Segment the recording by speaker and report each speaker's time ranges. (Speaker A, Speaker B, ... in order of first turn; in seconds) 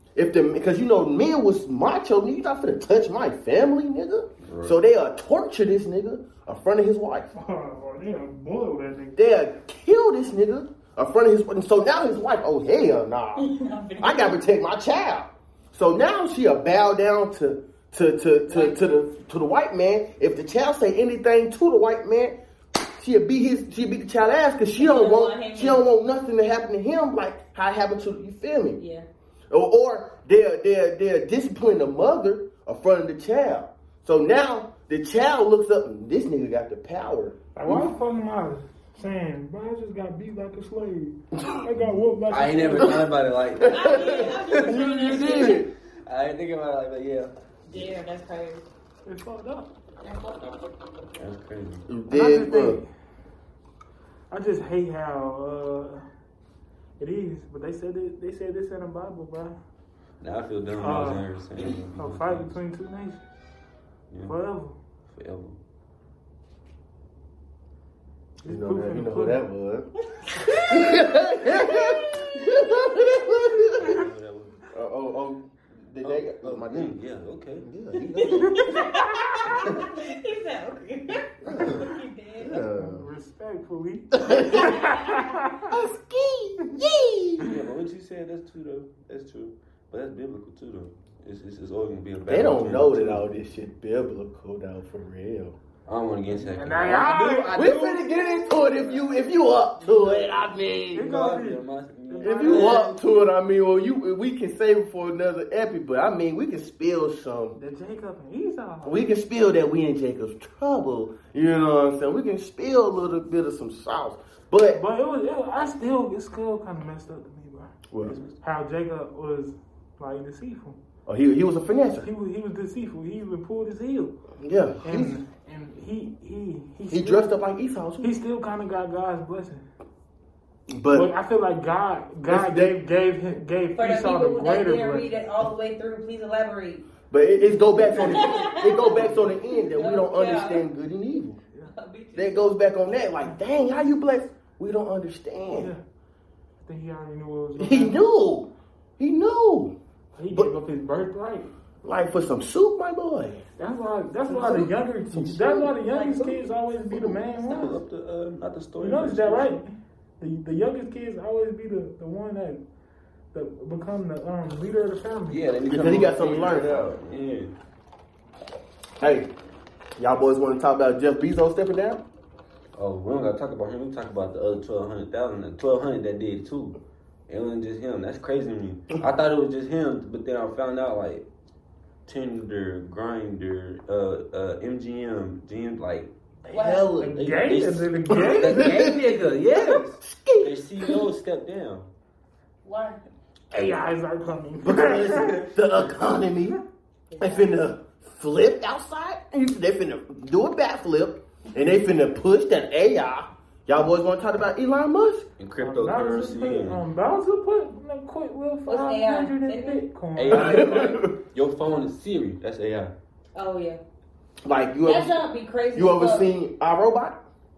Speaker A: 0.1-7.3, 9.1-13.4, 14.0-28.8, 29.5-37.9, 41.4-41.6, 43.6-45.7, 51.9-52.8, 68.5-69.9, 70.7-74.0, 74.7-77.0, 77.6-78.7, 81.4-81.8, 82.4-83.1, 85.7-87.4, 92.2-95.5, 97.5-101.1, 102.2-107.6, 108.8-114.8, 117.9-118.2, 121.1-122.1, 124.4-125.2, 126.9-128.1, 130.7-131.1, 132.3-132.8, 137.1-141.4, 142.1-145.7, 147.6-149.8, 151.8-153.4, 154.5-155.7, 156.9-157.2, 165.7-166.9, 169.0-169.3, 170.0-172.0, 186.4-187.1, 188.1-191.0, 194.6-196.6, 197.2-205.2, 210.3-211.1, 214.4-215.2, 215.7-217.2
Speaker B: 4.4-4.8, 42.3-47.9, 51.2-51.8, 60.2-62.5, 64.1-64.3, 65.1-65.6, 73.8-74.6, 76.0-77.7, 87.4-93.3, 95.9-99.1, 101.0-103.0, 118.0-118.3, 157.4-159.6, 165.3-167.5, 172.7-181.2, 182.1-186.1, 186.9-191.9, 205.4-206.8, 210.1-212.9
Speaker C: 7.3-9.2, 37.5-43.1, 49.0-49.7, 52.1-52.9, 54.3-56.0, 57.0-59.6, 60.8-63.2, 64.2-64.8, 68.4-69.4, 78.5-79.2, 82.5-85.6, 96.3-97.6, 100.9-102.9, 107.5-109.0, 114.7-117.7, 118.4-120.8, 122.0-124.1, 124.8-127.4, 128.0-129.6, 130.9-135.1, 138.0-139.3, 145.5-145.8, 146.6-148.0, 150.2-151.5, 153.6-157.7, 158.8-162.6, 163.3-165.4, 187.0-188.7, 193.5-195.5, 205.6-210.6
Speaker D: 13.3-14.4, 18.5-18.8, 24.8-25.8, 28.8-29.1, 43.6-45.6, 47.6-48.6, 50.0-50.7, 70.0-72.5, 78.1-82.6, 84.3-85.2, 99.8-100.1, 133.7-136.9, 137.4-140.7, 141.7-142.6, 154.2-154.7, 155.7-156.6, 157.2-157.8, 186.5-186.9, 192.6-193.0, 197.1-197.6, 208.7-209.8, 213.3-213.8, 214.8-216.3